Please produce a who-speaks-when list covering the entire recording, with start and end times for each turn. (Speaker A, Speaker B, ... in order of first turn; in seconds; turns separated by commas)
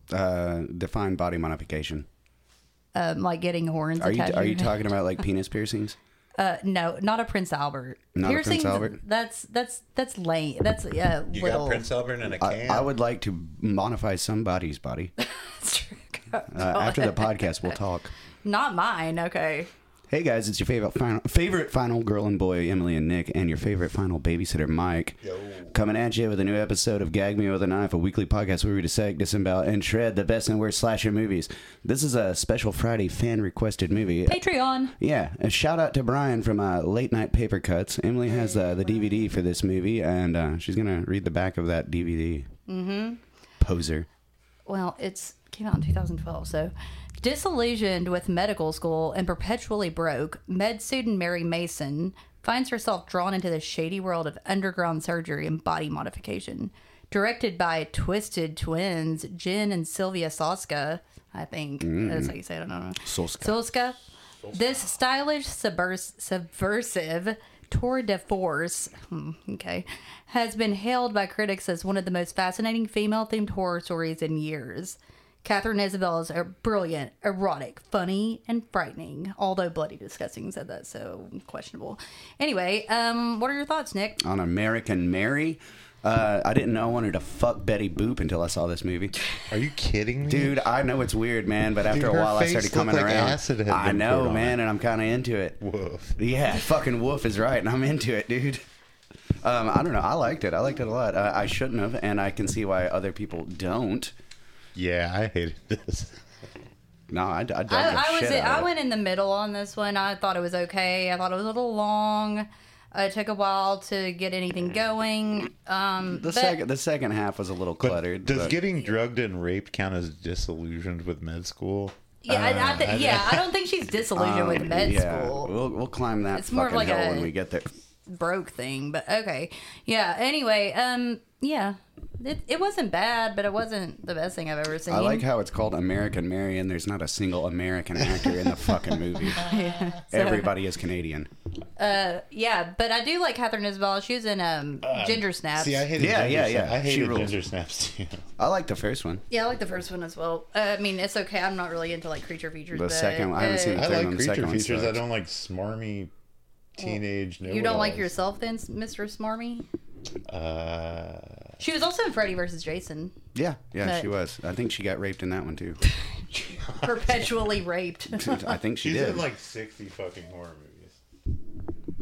Speaker A: 0.1-2.1, Speaker B: 3.0-4.8, Speaker A: 4.0-6.0, Speaker B: 6.4-11.8, Speaker A: 8.2-9.0, Speaker C: 11.3-12.9, Speaker A: 12.4-15.1, Speaker B: 15.2-17.8, Speaker A: 16.5-18.1, Speaker B: 18.4-19.7, Speaker A: 20.1-34.4, Speaker B: 34.3-34.9, Speaker A: 35.0-42.5, Speaker B: 42.7-43.2, Speaker A: 43.6-44.1, Speaker B: 44.7-64.0, Speaker A: 61.8-62.3, Speaker A: 63.0-63.6, Speaker C: 64.5-64.8, Speaker B: 64.5-84.2, Speaker A: 84.2-89.1, Speaker C: 89.5-90.7, Speaker A: 90.3-95.6, Speaker C: 91.9-94.6, Speaker C: 95.6-96.2, Speaker A: 96.2-98.6, Speaker A: 99.4-104.1, Speaker C: 104.8-106.2, Speaker A: 107.1-108.7, Speaker B: 107.7-116.6, Speaker A: 116.2-118.6, Speaker C: 117.8-123.5, Speaker B: 122.2-125.5, Speaker A: 124.2-127.7, Speaker B: 126.3-127.3, Speaker B: 128.1-135.2, Speaker A: 134.9-139.6, Speaker B: 139.3-140.5, Speaker A: 140.1-141.3, Speaker B: 141.8-145.8, Speaker C: 144.8-148.2, Speaker A: 146.0-147.4, Speaker A: 148.4-149.2, Speaker B: 149.3-153.8, Speaker A: 152.7-155.0, Speaker C: 153.7-156.1, Speaker C: 156.8-158.1, Speaker B: 156.8-159.7, Speaker C: 160.3-161.5, Speaker B: 161.6-163.2, Speaker A: 163.3-165.8, Speaker B: 163.8-164.1, Speaker C: 166.5-167.1, Speaker B: 166.8-168.5, Speaker A: 168.2-169.3, Speaker C: 168.8-171.0